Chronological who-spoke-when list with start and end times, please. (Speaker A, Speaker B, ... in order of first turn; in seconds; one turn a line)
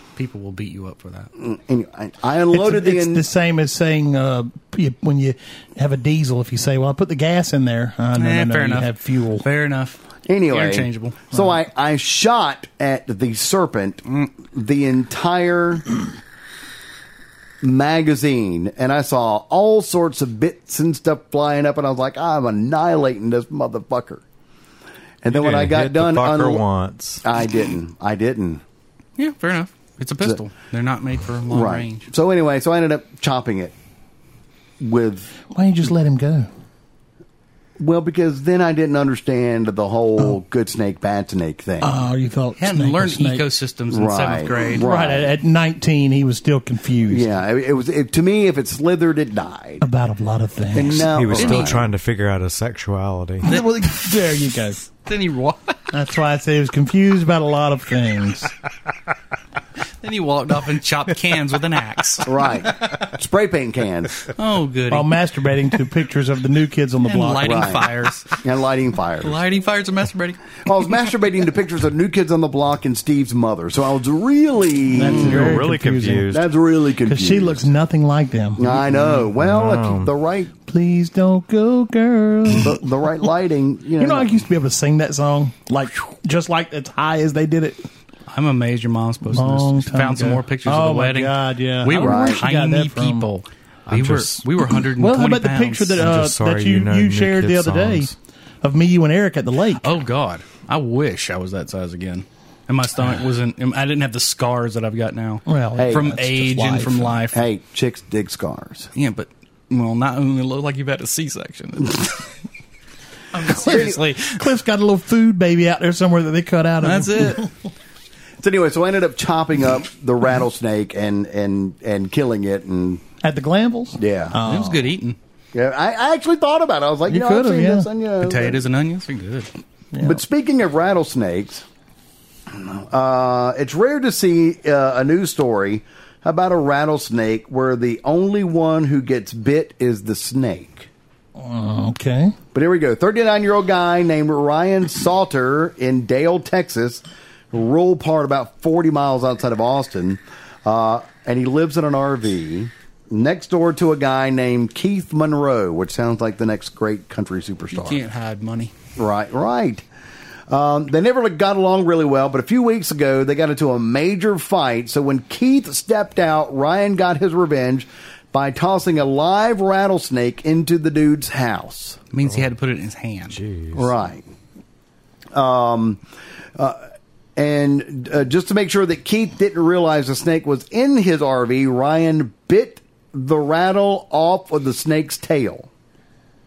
Speaker A: 0.2-1.3
Speaker B: 1.4-3.2
Speaker C: 2.5-9.4
Speaker A: 8.2-11.3
Speaker B: 10.3-15.9
Speaker B: 17.6-24.2
Speaker B: 25.2-26.6
Speaker D: 25.3-27.2
Speaker B: 27.2-28.6
Speaker A: 29.2-32.1
Speaker B: 31.5-33.7
Speaker B: 34.8-35.3
Speaker C: 35.5-36.5
Speaker B: 37.8-41.9
Speaker C: 41.8-43.4
Speaker A: 42.6-44.9
Speaker B: 43.9-45.3
Speaker C: 44.8-47.3
Speaker B: 47.1-49.9
Speaker C: 49.8-51.1
Speaker B: 50.7-51.9
Speaker D: 51.0-53.5
Speaker A: 51.3-51.8
Speaker C: 53.4-54.8
Speaker A: 53.5-53.9
Speaker A: 55.0-55.9
Speaker C: 55.9-58.5
Speaker A: 60.0-63.0
Speaker B: 62.2-64.3
Speaker A: 64.3-65.1
Speaker C: 64.9-67.8
Speaker A: 67.0-68.4
Speaker B: 67.4-69.4
Speaker A: 69.2-70.6
Speaker B: 70.6-75.6
Speaker C: 74.9-76.3
Speaker D: 75.1-76.5
Speaker B: 76.3-77.7
Speaker C: 77.0-78.7
Speaker B: 78.6-80.5
Speaker D: 79.3-80.1
Speaker C: 80.7-82.8
Speaker B: 82.6-84.3
Speaker C: 84.0-87.9
Speaker A: 88.3-96.0
Speaker C: 89.3-93.3
Speaker B: 91.9-92.4
Speaker D: 93.9-94.5
Speaker C: 95.0-99.9
Speaker D: 96.0-98.1
Speaker A: 99.8-107.4
Speaker C: 105.5-107.2
Speaker B: 105.8-106.2
Speaker B: 107.3-108.9
Speaker A: 109.0-112.3
Speaker C: 113.3-117.5
Speaker A: 113.4-114.3
Speaker B: 113.6-114.0
Speaker A: 116.8-117.5
Speaker B: 118.4-123.0
Speaker C: 123.2-124.8
Speaker B: 124.0-124.4
Speaker A: 124.5-125.2
Speaker B: 125.5-128.6
Speaker C: 127.1-127.9
Speaker A: 128.2-129.5
Speaker C: 129.9-130.2
Speaker B: 130.0-131.7
Speaker B: 132.5-140.9
Speaker C: 141.4-142.4
Speaker B: 142.5-158.0
Speaker A: 157.7-158.7
Speaker B: 159.0-159.8
Speaker B: 160.5-172.0
Speaker A: 172.1-173.4
Speaker D: 173.3-174.0
Speaker B: 173.7-174.3
Speaker B: 175.3-176.0
Speaker B: 177.4-185.7